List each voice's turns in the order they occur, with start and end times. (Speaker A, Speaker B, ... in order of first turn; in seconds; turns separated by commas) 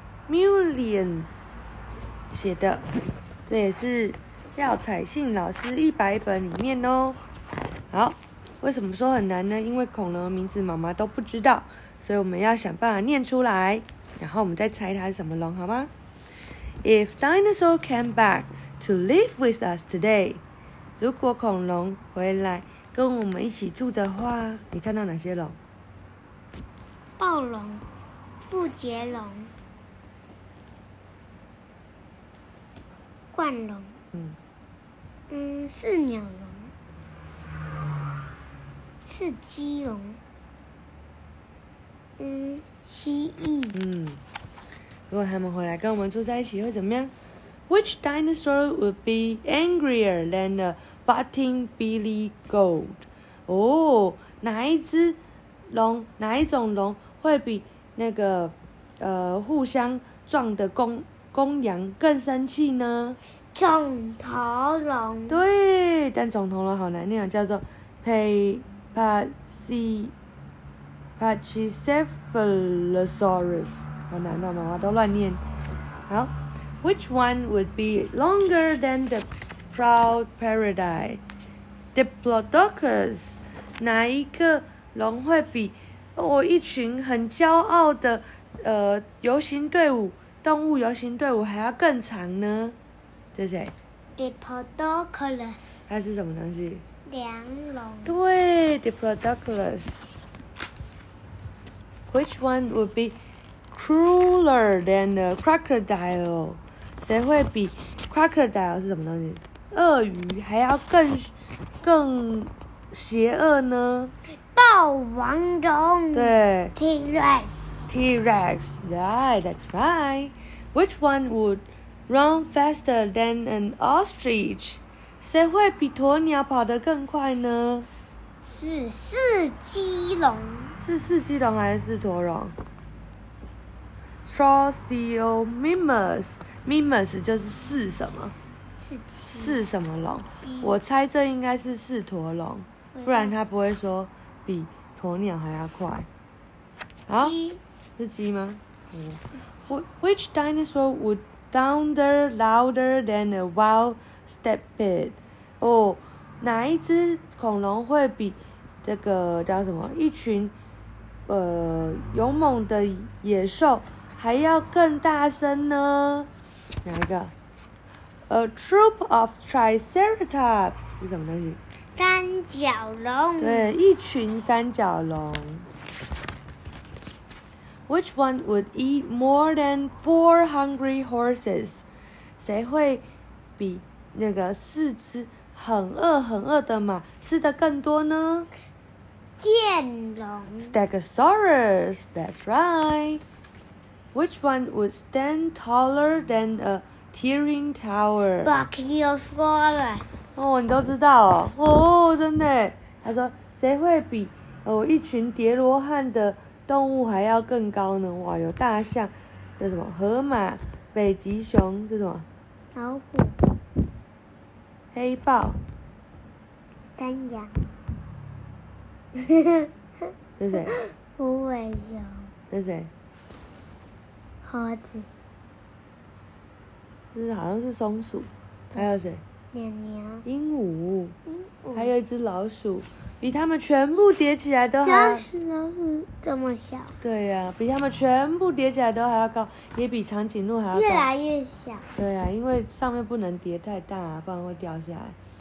Speaker A: 0.3-1.4, Speaker A: 2.3-2.9, Speaker A: 3.5-7.2, Speaker A: 7.9-15.9, Speaker A: 16.8-20.4, Speaker A: 21.0-25.6, Speaker B: 27.2-27.8, Speaker B: 28.4-29.5, Speaker B: 33.3-34.0, Speaker B: 35.3-36.7, Speaker B: 39.0-40.2, Speaker B: 42.2-43.8, Speaker A: 43.7-44.2, Speaker A: 45.1-47.1, Speaker A: 47.7-63.2, Speaker B: 63.5-65.4, Speaker A: 65.3-70.1, Speaker A: 71.2-75.4, Speaker A: 76.1-81.2, Speaker A: 81.9-92.8, Speaker A: 93.3-93.7, Speaker B: 94.2-95.8, Speaker A: 95.9-96.8, Speaker B: 97.0-98.2, Speaker A: 98.0-100.0, Speaker A: 102.1-103.2, Speaker A: 103.7-114.1, Speaker B: 114.5-117.9, Speaker A: 116.1-116.8, Speaker A: 117.9-127.9, Speaker B: 128.5-130.8, Speaker A: 130.8-132.6, Speaker A: 134.2-138.3, Speaker B: 138.8-139.6, Speaker A: 139.3-146.1, Speaker B: 140.3-140.7, Speaker B: 142.9-143.3, Speaker A: 147.1-147.3, Speaker B: 147.2-147.6, Speaker A: 148.0-160.5, Speaker A: 161.3-166.3, Speaker A: 166.8-167.3, Speaker A: 168.3-171.6, Speaker B: 171.9-173.7, Speaker A: 173.4-175.7, Speaker A: 177.9-181.8, Speaker A: 182.4-183.0, Speaker A: 183.6-188.5, Speaker B: 189.4-190.7, Speaker A: 190.6-193.2, Speaker A: 194.1-198.5, Speaker B: 198.4-200.2, Speaker A: 200.3-212.2, Speaker B: 212.7-213.4, Speaker A: 214.9-215.6, Speaker B: 216.9-217.7, Speaker B: 219.2-219.7, Speaker A: 220.4-220.8, Speaker B: 220.6-222.3, Speaker A: 222.5-222.9, Speaker B: 224.4-225.1, Speaker A: 227.1-229.2, Speaker B: 229.5-230.2, Speaker A: 230.2-231.2, Speaker B: 231.3-231.9, Speaker A: 231.8-235.2, Speaker B: 234.8-237.0, Speaker A: 237.0-241.1, Speaker B: 240.7-241.9, Speaker A: 241.9-245.2